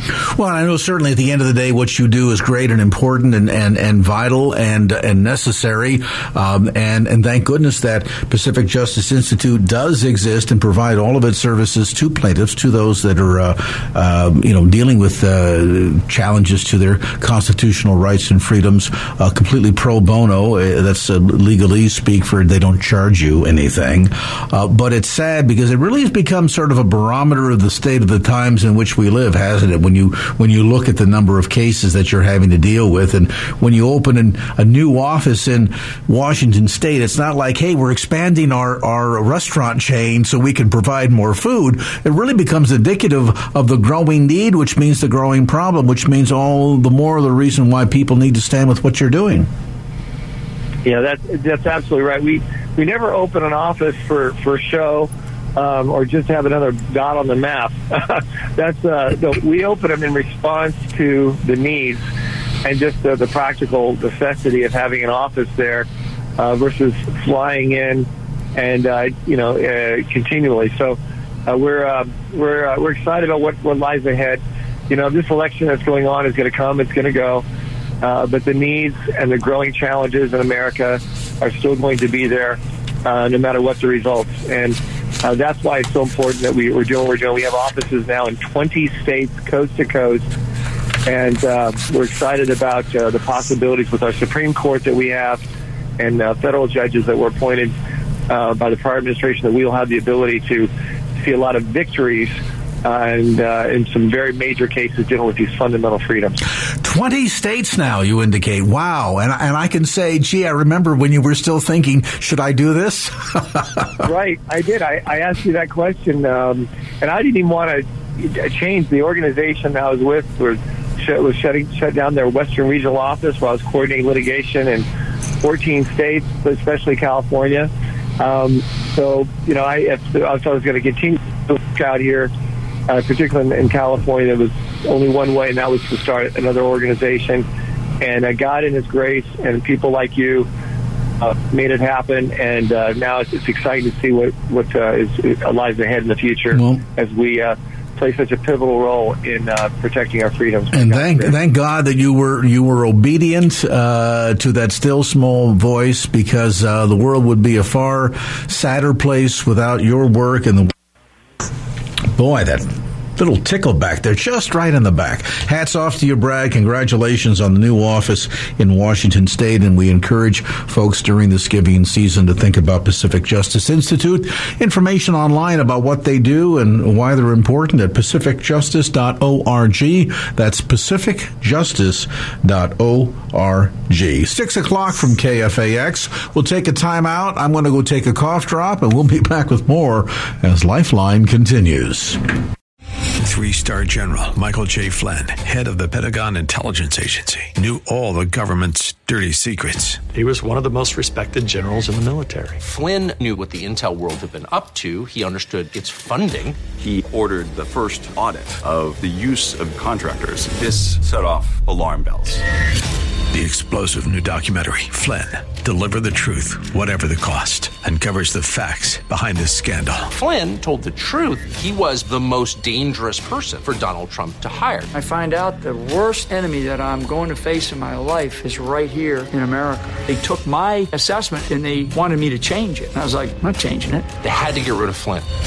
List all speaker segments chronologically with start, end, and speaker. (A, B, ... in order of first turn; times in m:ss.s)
0:00.2-0:49.5 A
0:50.8-1:02.0 B
1:02.6-1:05.9 B
1:06.4-1:17.4 B
1:18.0-1:30.3 B
1:31.0-1:35.4 B
1:36.0-1:37.7 B
1:38.3-1:46.4 B
1:46.8-1:53.9 A
1:54.0-2:04.8 B
2:05.4-2:12.3 B
2:12.9-2:17.4 B
2:18.0-2:20.5 B
2:21.2-2:31.4 B
2:26.5-2:26.8 A
2:30.7-2:40.7 A
2:42.0-3:12.2 A
3:13.2-3:20.0 C
3:20.1-3:22.6 D
3:22.6-3:26.6 E
3:26.8-3:32.4 F
3:33.3-3:40.1 C
3:40.1-3:44.9 E
3:44.9-3:54.1 G
3:54.2-3:55.3 E